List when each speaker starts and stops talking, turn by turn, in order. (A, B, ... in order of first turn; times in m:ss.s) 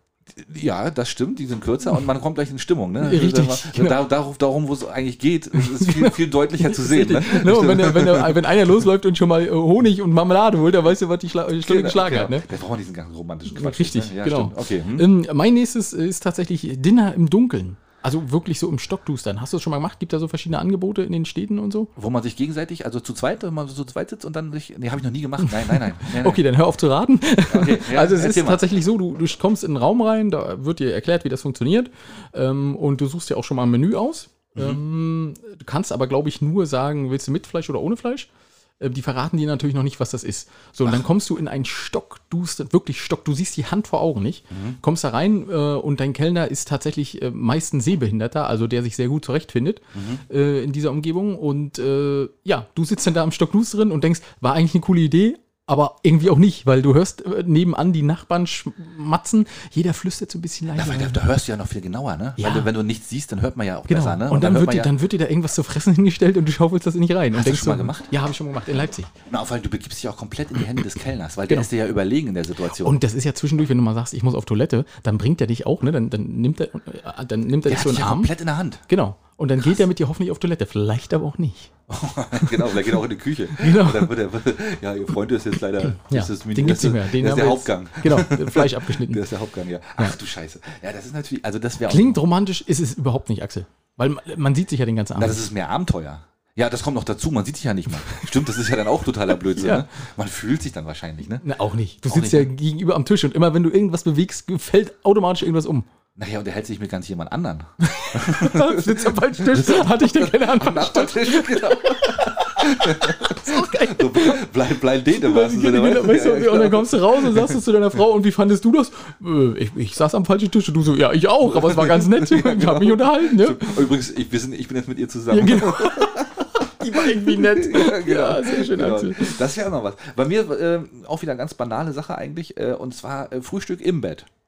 0:00.3-0:08.4 A
0:03.0-0:04.0 B
0:05.6-0:12.4 B
0:11.6-0:15.1 A
0:13.5-0:21.9 B
0:22.0-0:26.4 A
0:25.4-1:01.2 B
0:27.5-0:28.6 A
0:34.5-0:34.8 A
0:44.5-0:44.8 A
0:49.9-0:50.2 A
1:00.7-1:04.9 A
1:02.4-1:02.7 B
1:03.9-1:09.1 B
1:07.3-1:08.1 A
1:09.2-1:13.0 A
1:12.7-1:18.3 B
1:17.6-1:18.8 A
1:18.9-1:21.7 B
1:21.9-1:32.2 A
1:22.4-1:22.9 B
1:23.5-1:24.1 B
1:25.8-1:29.2 B
1:31.8-1:35.4 B
1:35.2-1:41.4 A
1:39.5-1:39.9 B
1:41.4-1:45.9 B
1:42.1-1:42.5 A
1:46.2-1:57.6 A
1:47.8-1:54.4 B
1:55.1-2:03.8 B
2:01.4-2:14.3 A
2:05.3-2:06.2 B
2:06.8-2:09.4 B